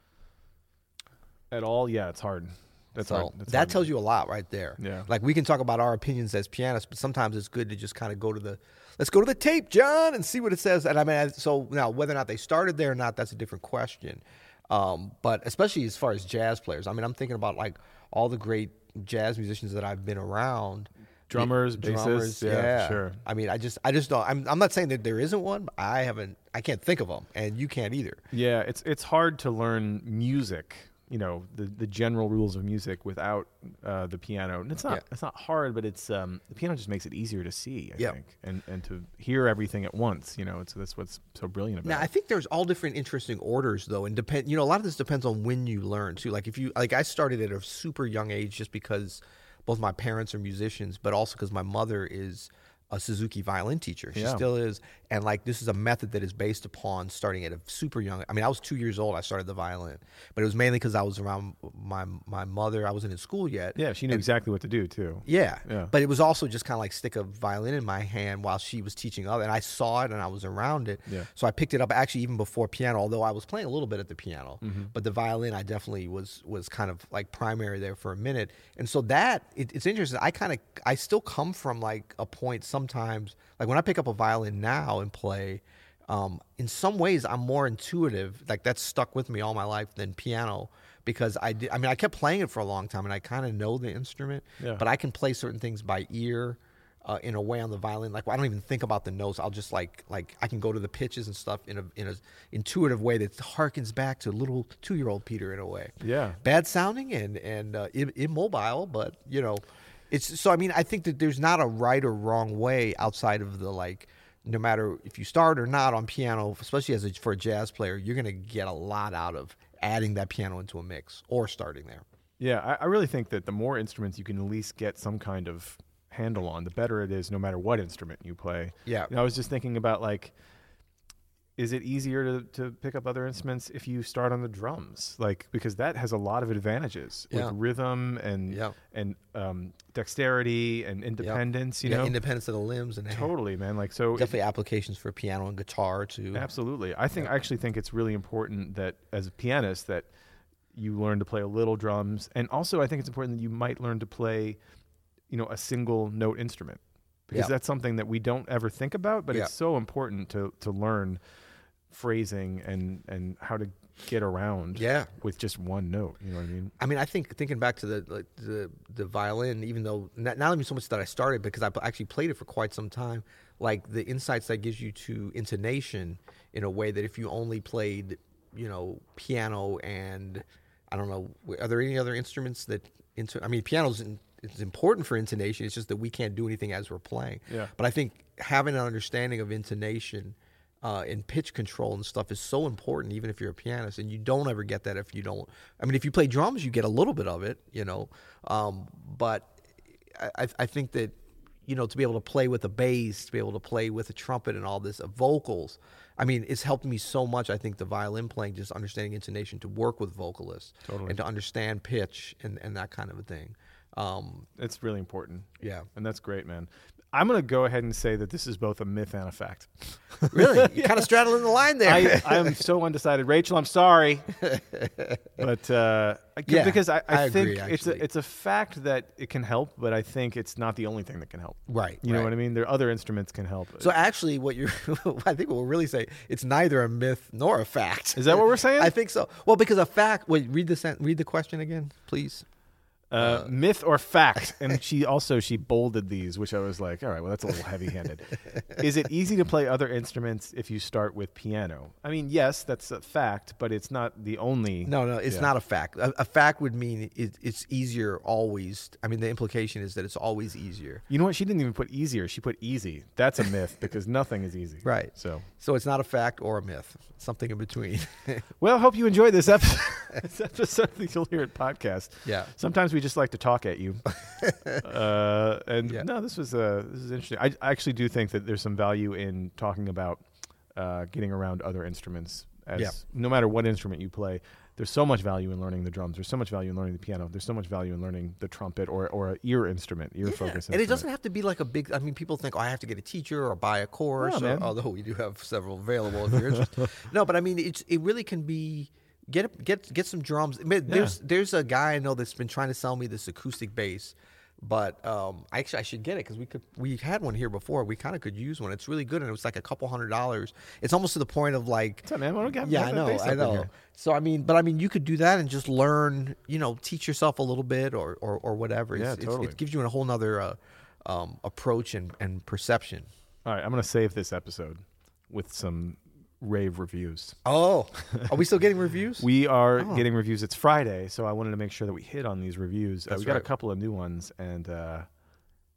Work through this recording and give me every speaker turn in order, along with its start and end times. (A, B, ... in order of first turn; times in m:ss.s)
0:01.5-0:03.9 A
0:03.0-0:28.2 B
0:04.8-0:05.1 A
0:21.3-0:23.2 A
0:28.3-0:42.1 A
0:41.8-1:04.3 B
0:54.2-0:54.4 A
1:03.8-1:05.9 A
1:05.3-2:02.0 B
1:14.6-1:14.9 A
1:46.0-1:46.4 A
2:02.4-2:10.3 A
2:08.9-2:09.1 B
2:11.6-2:22.2 A
2:17.3-2:17.6 B
2:18.5-2:18.8 B
2:21.2-2:23.3 B
2:23.1-2:24.3 A
2:24.2-2:26.5 B
2:26.3-2:30.1 A
2:30.7-2:34.6 A
2:35.3-2:41.2 A
2:41.9-2:46.7 A
2:44.8-2:45.1 B
2:46.8-3:19.6 B
3:20.1-3:34.5 B
3:30.9-3:31.2 A
3:34.6-3:41.1 A
3:35.6-3:35.9 B
3:40.3-3:42.6 B
3:41.8-3:44.4 A
3:44.5-3:45.4 B
3:45.4-3:54.0 A
3:46.5-3:48.0 B
3:51.7-3:52.3 B
3:53.8-4:02.4 B
3:58.2-3:58.9 A
4:03.1-4:15.5 A
4:03.2-4:03.5 B
4:14.8-4:21.0 B
4:21.1-4:25.5 A
4:24.8-4:28.5 B
4:28.6-4:34.1 A
4:32.3-4:32.5 B
4:34.3-4:34.8 B
4:34.7-4:40.2 A
4:40.8-4:51.0 A
4:50.2-5:23.1 B
4:54.2-4:54.7 A
5:00.9-5:01.2 A
5:12.0-5:13.7 A
5:18.9-5:19.6 A
5:23.4-5:27.4 A
5:27.4-5:30.1 B
5:29.2-5:35.1 A
5:33.1-5:33.5 B